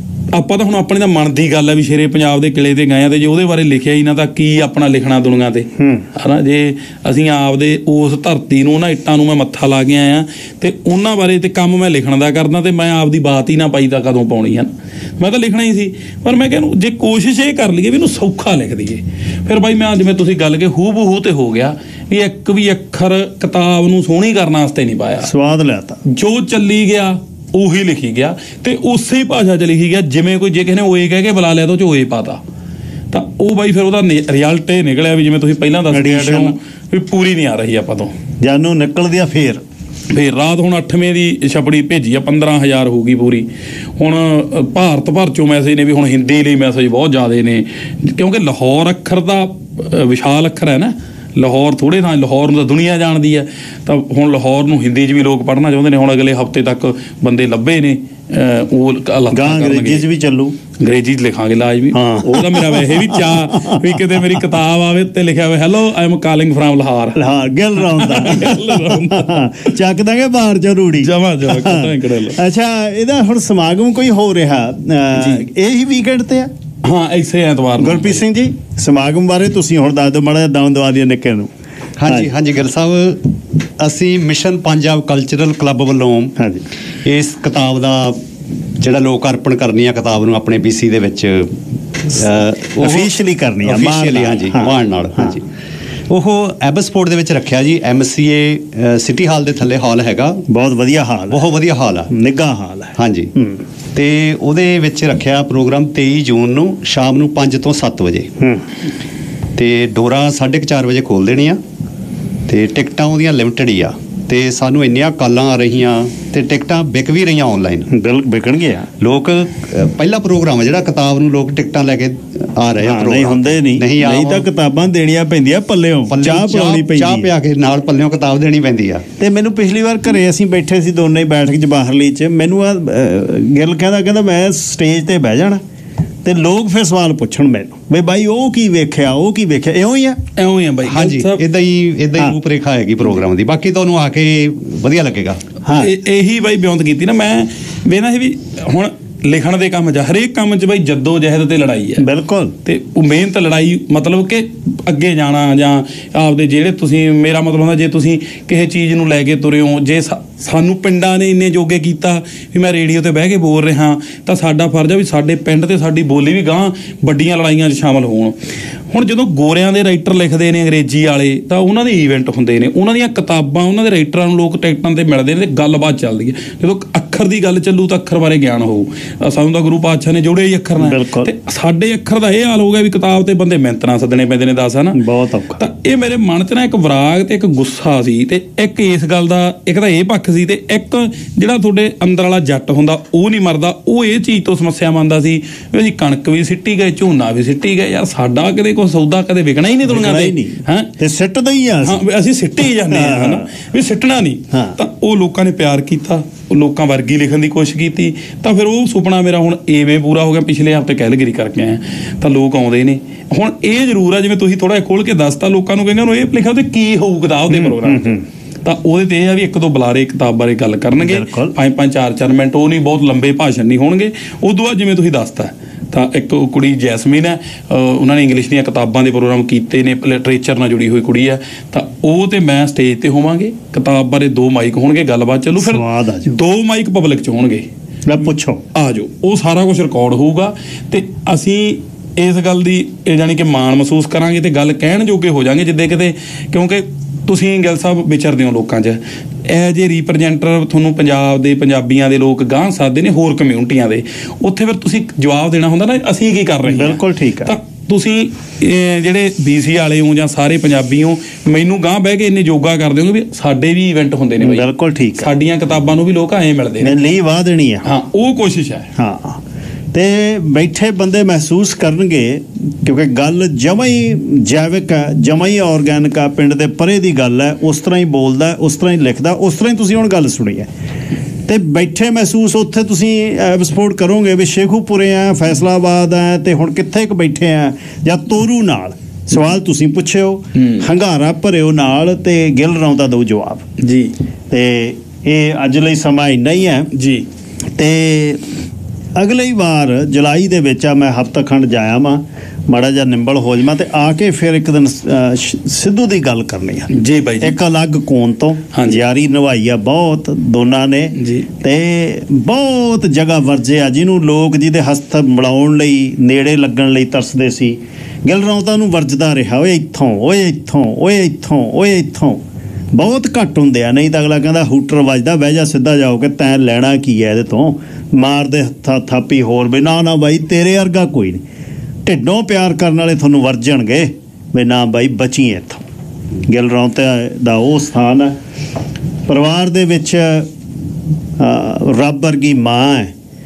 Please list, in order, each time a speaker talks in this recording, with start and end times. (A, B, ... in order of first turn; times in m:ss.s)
0:00.3-0:25.3 A
0:05.8-0:06.0 B
0:25.2-0:26.0 B
0:26.1-0:32.4 A
0:33.1-0:38.1 A
0:35.9-0:36.6 B
0:38.4-0:39.6 B
0:40.1-1:00.0 A
0:59.3-1:00.6 B
1:00.8-1:07.2 A
1:01.9-1:04.2 B
1:07.2-1:16.5 B
1:07.8-1:09.7 A
1:11.0-1:12.4 A
1:15.2-1:15.4 A
1:16.8-1:18.2 A
1:17.8-1:21.5 B
1:22.0-1:26.4 C
1:26.4-1:26.6 B
1:27.0-1:28.2 C
1:28.8-1:35.4 C
1:32.8-1:35.4 B
1:36.1-1:40.4 C
1:40.5-1:41.4 B
1:41.3-1:42.1 C
1:42.1-1:43.6 B
1:43.0-1:43.3 C
1:43.9-1:48.3 C
1:48.4-1:48.6 B
1:49.6-1:51.6 C
1:52.5-1:57.9 C
1:57.9-1:58.9 B
1:59.0-2:04.5 C
2:02.8-2:07.3 B
2:06.1-2:09.1 C
2:09.2-2:15.6 B
2:16.2-2:20.2 B
2:20.4-2:21.4 A
2:20.8-2:25.4 C
2:25.6-2:25.9 B
2:25.8-2:32.0 A
2:32.0-2:32.6 B
2:32.6-2:48.4 A
2:48.9-3:05.0 A
3:00.8-3:01.3 B
3:04.9-3:05.6 B
3:05.6-3:20.9 A
3:19.9-3:22.0 B
3:21.8-3:57.7 A
3:22.9-3:23.5 B
3:24.5-3:24.8 B
3:37.5-3:38.2 B
3:41.0-3:41.5 B
3:55.6-3:56.4 B
3:58.1-3:58.6 B
3:58.7-4:24.7 A
4:16.7-4:17.6 B
4:24.4-4:25.3 B
4:25.2-4:27.0 A
4:26.8-4:27.9 B
4:27.8-4:28.9 A
4:29.0-4:29.4 B
4:29.9-4:40.7 B
4:41.5-4:53.6 B
4:50.6-4:50.9 A
4:53.8-4:54.1 A
4:54.5-4:56.9 B
4:56.9-4:57.3 A
4:57.8-4:58.6 B
4:59.2-5:22.4 B
5:06.9-5:07.6 A
5:11.2-5:11.5 A
5:22.9-5:31.4 B
5:32.0-5:35.8 B
5:36.5-5:38.4 B
5:39.3-5:40.5 B
5:41.4-5:43.1 B